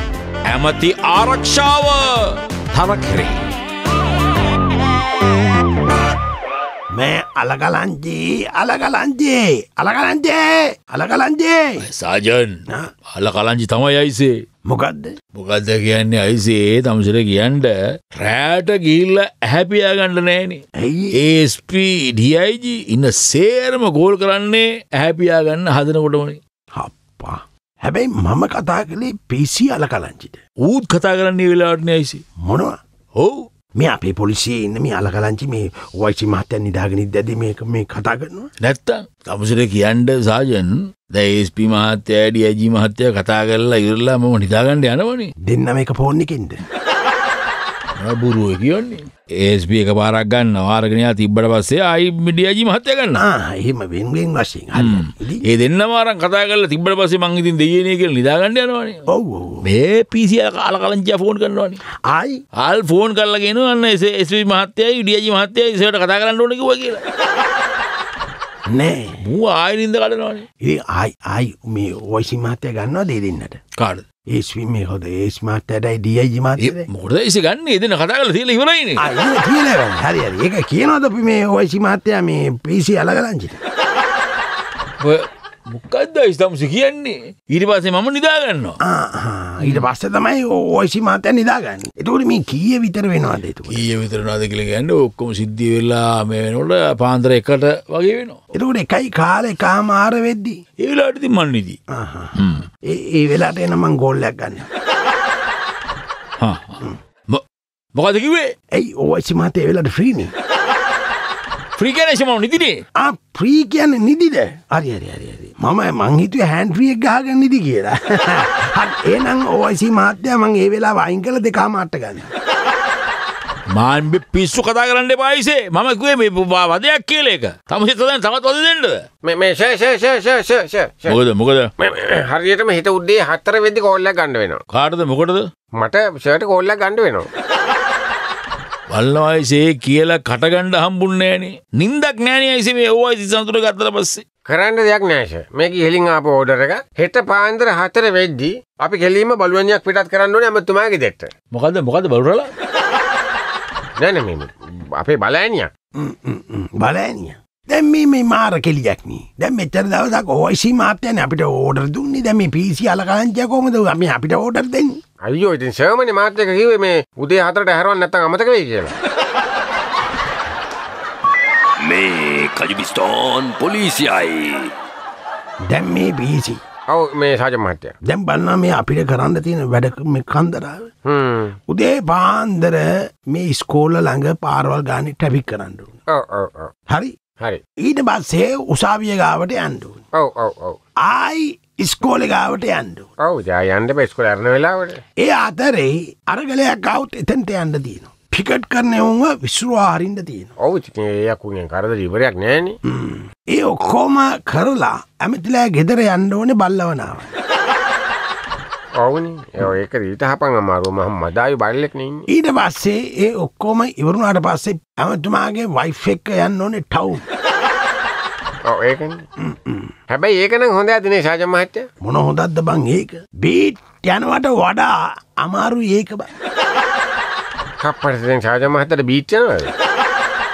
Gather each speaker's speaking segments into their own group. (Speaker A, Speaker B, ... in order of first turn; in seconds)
Speaker A: 0.5-3.4, 11.8-12.6, 13.1-14.3, 15.3-20.6, 21.1-26.4, 30.6-32.2, 33.2-33.4, 38.6-45.3, 48.0-53.2, 54.8-59.0, 59.6-61.8, 62.6-67.0, 69.2-70.4, 73.8-74.0, 76.6-79.0, 85.0-88.8, 93.7-98.4, 100.8-101.8, 102.4-102.6, 106.4-106.8, 108.0-108.5, 111.8-112.8, 123.8-129.0, 131.1-131.7, 134.7-135.4, 138.9-144.2, 151.5-152.5
Speaker B: 7.0-11.8, 14.7-15.1, 20.8-21.1, 26.8-30.4, 32.4-32.8, 33.8-38.5, 45.5-46.6, 53.2-55.5, 59.1-59.6, 62.1-62.4, 68.7-69.2, 70.6-73.6, 74.3-76.9, 79.0-83.6, 88.9-93.8, 98.5-100.6, 101.9-102.4, 102.9-104.7, 108.8-110.3, 113.0-122.3, 156.0-164.9, 175.7-176.6, 178.0-180.9, 181.7-185.9, 187.8-190.0, 191.0-193.1, 195.2-200.5, 202.9-207.3, 212.3-217.2, 219.4-219.9, 222.0-226.3
Speaker C: 129.2-131.2, 131.8-134.6, 135.8-137.3, 144.5-151.3, 154.0-155.7, 165.3-168.9, 176.9-177.9, 181.1-181.6, 186.1-186.7, 190.2-190.8, 193.2-195.0, 200.6-202.8, 209.0-212.2, 218.7-219.2, 220.1-221.9, 227.8-229.7
Speaker D: 171.8-174.7